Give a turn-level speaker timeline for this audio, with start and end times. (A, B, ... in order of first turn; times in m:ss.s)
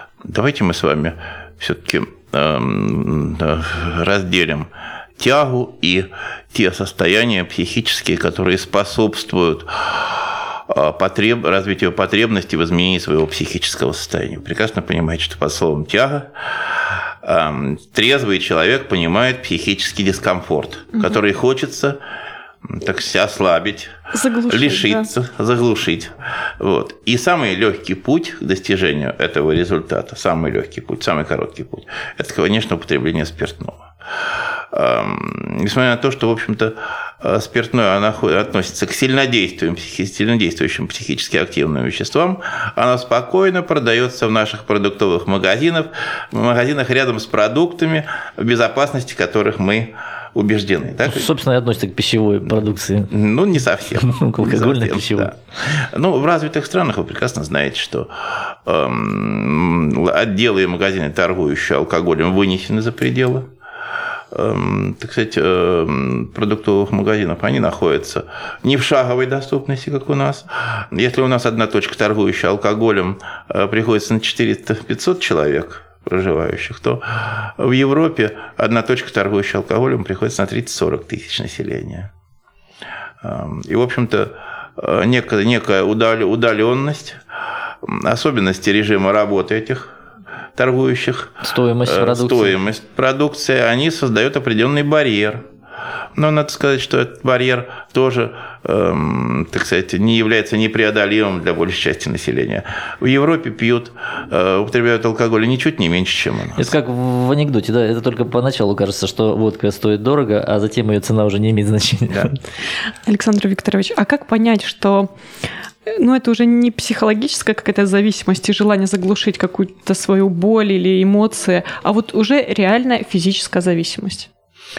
0:00.2-0:22.0 A
0:22.6-0:24.0 A
0:24.1-0:25.0 B
0:24.5-0:33.9 A
0:34.7-0:51.3 A
0:51.0-0:53.1 C
0:52.4-1:03.5 A
0:54.0-0:55.3 C
1:04.3-1:22.1 A
1:23.2-1:27.2 A
1:27.8-1:30.0 A
1:30.6-1:35.4 A
1:31.4-1:32.6 C
1:36.2-1:46.7 A
1:46.6-1:52.3 C
1:53.0-1:55.1 B
1:55.8-2:04.3 B